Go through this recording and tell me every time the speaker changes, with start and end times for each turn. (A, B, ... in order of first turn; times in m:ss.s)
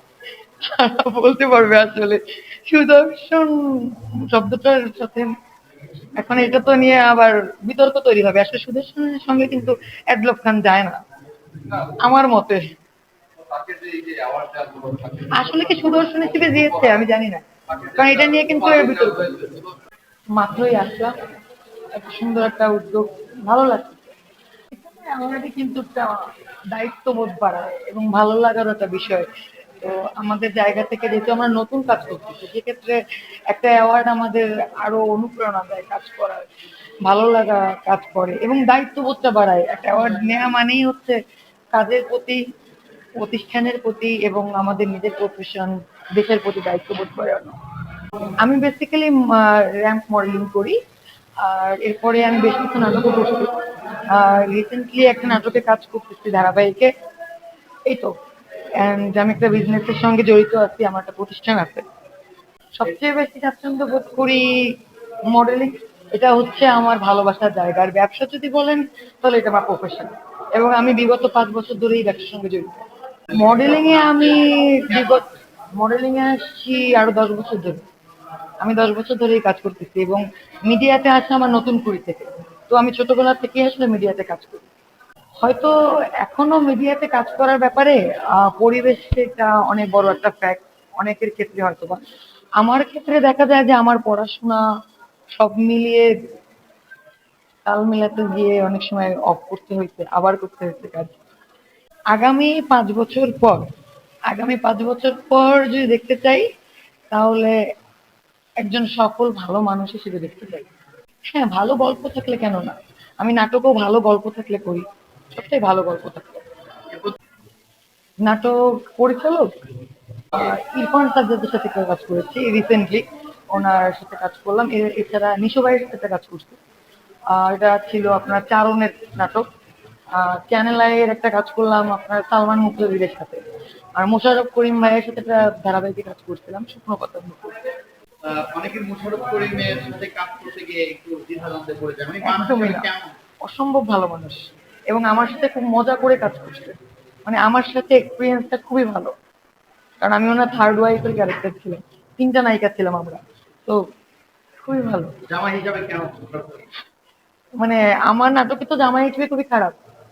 0:00.6-0:05.3 A
0:06.2-0:11.0 A
0:12.0-0:12.7 A
0:13.4-0:17.0 B
0:15.3-0:17.4 A
0:17.7-0:19.8 B
0:18.0-0:19.3 A
0:20.3-0:21.1 A
0:21.9-0:24.1 A
0:24.7-0:29.3 A
0:29.8-0:36.4 A
0:37.0-0:41.2 A
0:41.7-0:42.4 A
0:43.2-0:47.6 A
0:48.4-0:50.8 A
0:51.4-0:53.5 A
0:54.1-0:56.9 A
0:57.8-0:58.1 A
0:58.8-1:01.8 A
1:02.7-1:04.8 A
1:05.3-1:12.7 A
1:13.3-1:17.8 A
1:18.6-1:24.6 A
1:25.4-1:32.0 A
1:32.6-1:34.6 A
1:35.3-1:36.1 A
1:37.6-1:41.2 A
1:42.1-1:43.6 A
1:44.3-1:46.4 A
1:47.1-1:47.5 A
1:48.6-1:50.7 A
1:51.3-1:56.4 A
1:58.2-1:59.5 A
2:00.3-2:06.6 A
2:07.3-2:09.4 A
2:10.2-2:13.4 A
2:14.0-2:17.6 A
2:18.2-2:23.1 B
2:22.2-2:22.9 A
2:23.4-2:29.1 A
2:30.0-2:33.8 A
2:34.6-2:35.2 A
2:35.3-2:36.7 B
2:37.6-2:39.8 A